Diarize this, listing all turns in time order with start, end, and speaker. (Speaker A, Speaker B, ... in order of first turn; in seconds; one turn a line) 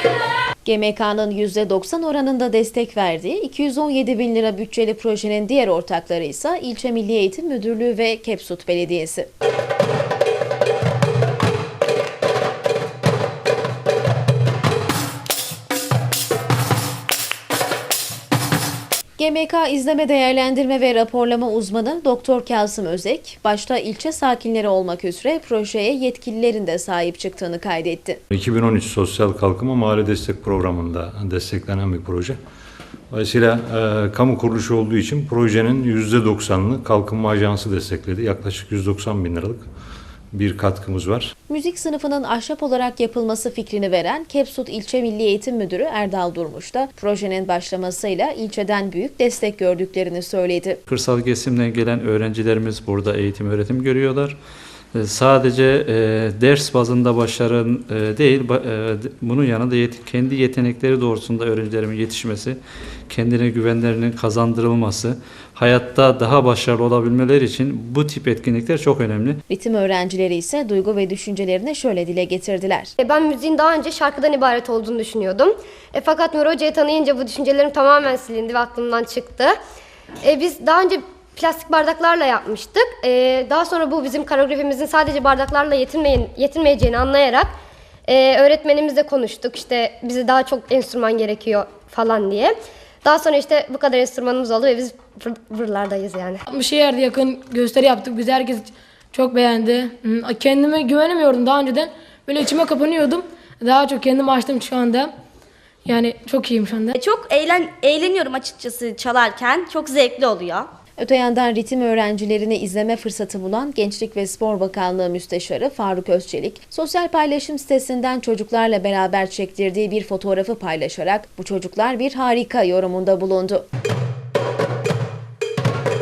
Speaker A: 0.7-9.3
Speaker A: 19.2-28.2
Speaker B: 28.3-32.4
Speaker B: 33.1-39.6
Speaker B: 40.3-41.3
Speaker A: 41.5-50.8
Speaker C: 50.9-54.4
Speaker C: 55.0-62.6
Speaker C: 63.1-69.4
Speaker A: 69.5-72.9
Speaker D: 73.0-79.5
Speaker D: 80.2-87.5
Speaker D: 88.1-96.4
Speaker E: 96.5-105.1
Speaker E: 105.9-107.0
Speaker F: 107.0-110.7
Speaker A: 111.0-123.7